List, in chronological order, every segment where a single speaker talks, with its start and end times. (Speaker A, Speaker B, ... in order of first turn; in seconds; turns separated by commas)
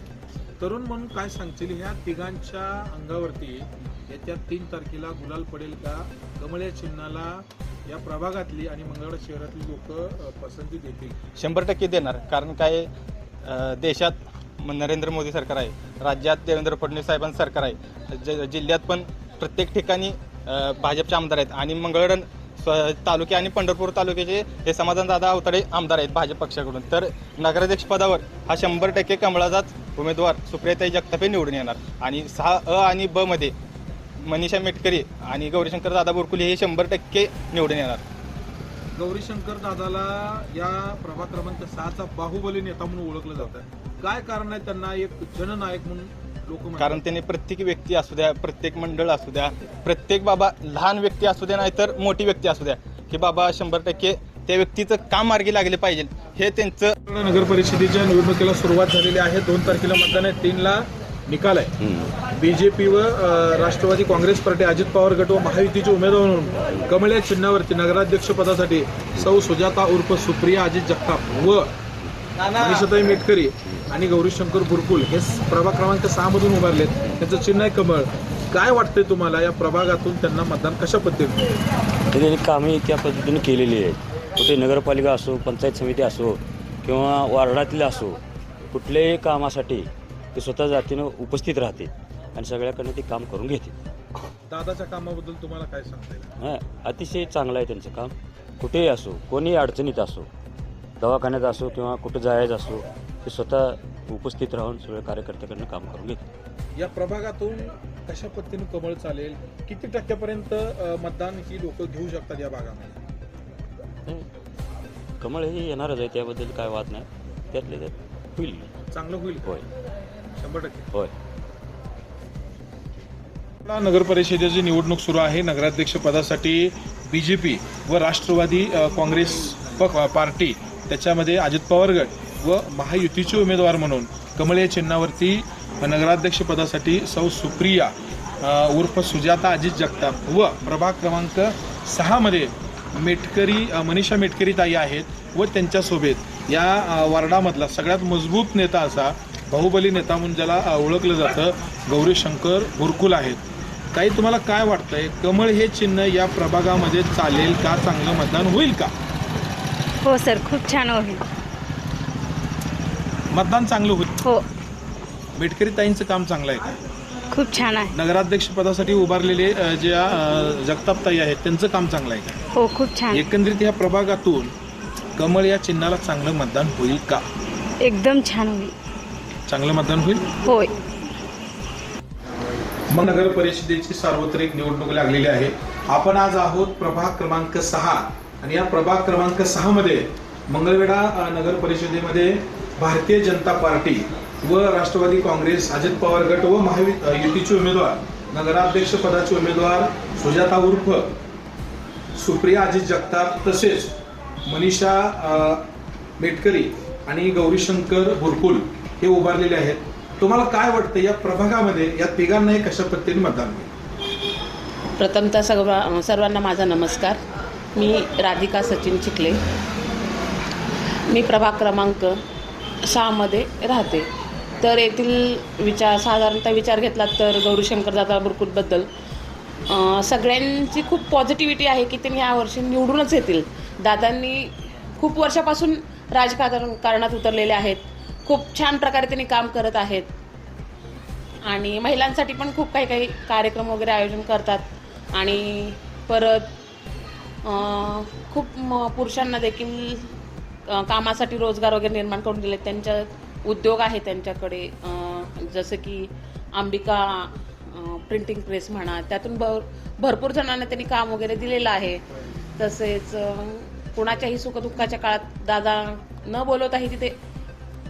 Speaker A: 0.6-11.2, Speaker B: 11.3-12.9, Speaker B: 13.4-33.5, Speaker B: 34.2-38.0, Speaker A: 39.0-47.0, Speaker B: 46.8-57.0, Speaker A: 57.0-71.7, Speaker C: 61.8-62.1, Speaker A: 72.5-81.4, Speaker C: 82.1-88.2, Speaker C: 88.7-93.8, Speaker A: 94.5-96.3, Speaker C: 96.4-100.3, Speaker C: 101.0-106.2, Speaker A: 106.8-113.0, Speaker C: 115.2-118.7, Speaker A: 118.9-119.5, Speaker A: 120.3-120.9, Speaker A: 123.6-153.4, Speaker A: 153.9-158.9, Speaker D: 160.0-161.2, Speaker A: 163.3-164.1, Speaker A: 165.4-166.6, Speaker D: 167.3-167.9, Speaker A: 167.9-172.4, Speaker D: 172.6-173.2, Speaker A: 173.1-174.5, Speaker A: 175.2-177.2, Speaker D: 177.8-178.7, Speaker A: 179.5-180.3, Speaker D: 180.4-180.7, Speaker A: 182.9-201.1, Speaker A: 202.2-203.9, Speaker A: 204.4-205.7, Speaker A: 206.2-213.7, Speaker E: 215.0-217.2, Speaker E: 217.7-219.4, Speaker E: 221.1-222.2, Speaker E: 222.8-224.1, Speaker E: 224.6-228.9, Speaker E: 229.7-240.1, Speaker E: 241.4-246.5, Speaker E: 247.4-250.1, Speaker E: 250.7-262.0, Speaker E: 262.6-267.2